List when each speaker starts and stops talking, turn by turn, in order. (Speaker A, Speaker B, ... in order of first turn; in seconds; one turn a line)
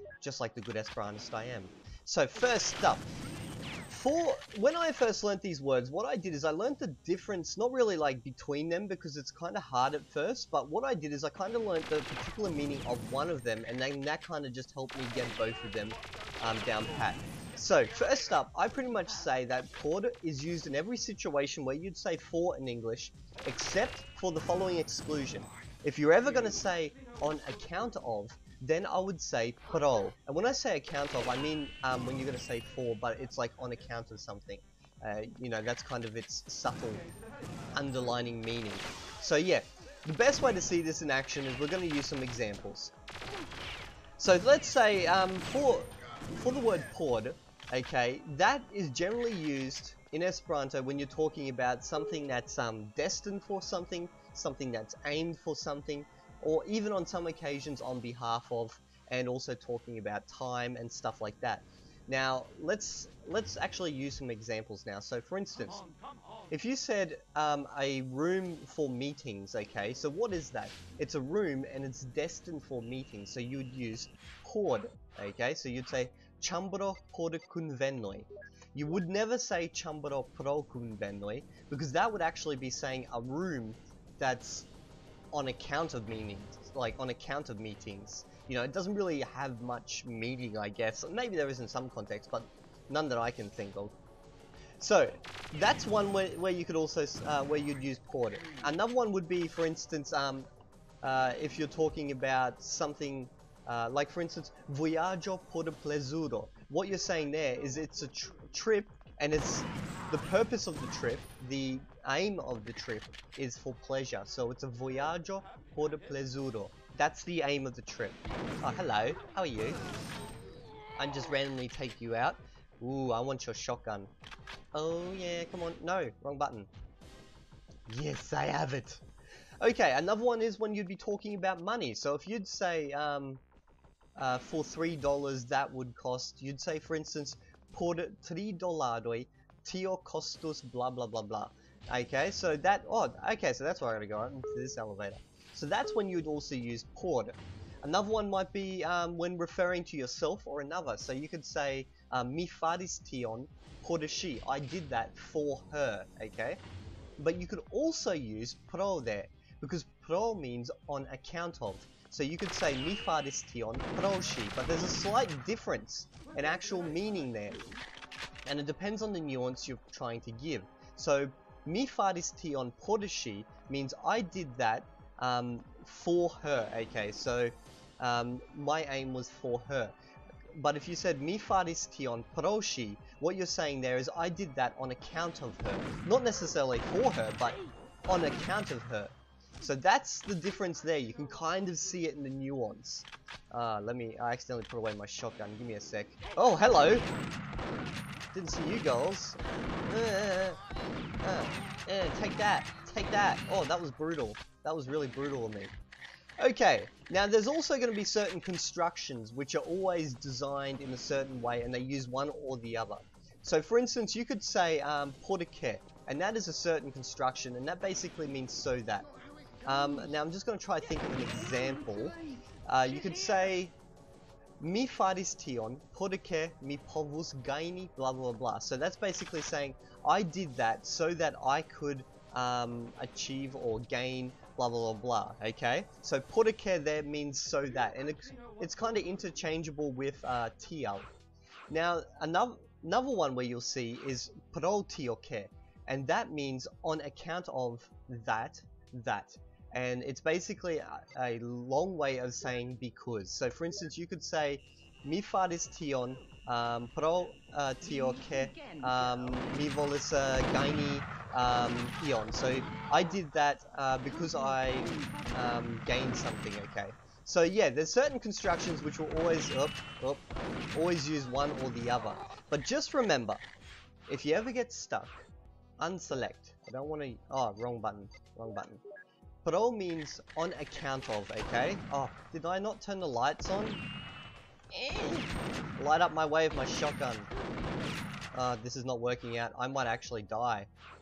Speaker A: 0.2-3.0
Speaker A: 3.9-37.1
Speaker A: 37.7-42.9
Speaker A: 44.2-65.9
Speaker A: 66.5-84.7
Speaker A: 85.3-94.0
Speaker A: 94.8-100.5
Speaker A: 101.0-119.8
Speaker A: 121.0-124.1
Speaker A: 124.7-126.7
Speaker A: 127.9-129.0
Speaker A: 129.6-133.4
Speaker A: 134.2-156.6
Speaker A: 157.2-167.8
Speaker A: 168.5-180.0
Speaker A: 180.6-197.1
Speaker A: 198.3-200.6
Speaker A: 201.2-205.7
Speaker A: 206.4-219.1
Speaker A: 219.7-223.8
Speaker A: 224.6-241.1
Speaker A: 241.7-273.4
Speaker A: 274.1-275.2
Speaker A: 275.8-278.8
Speaker A: 279.4-283.8
Speaker A: 284.7-287.3
Speaker A: 288.3-290.7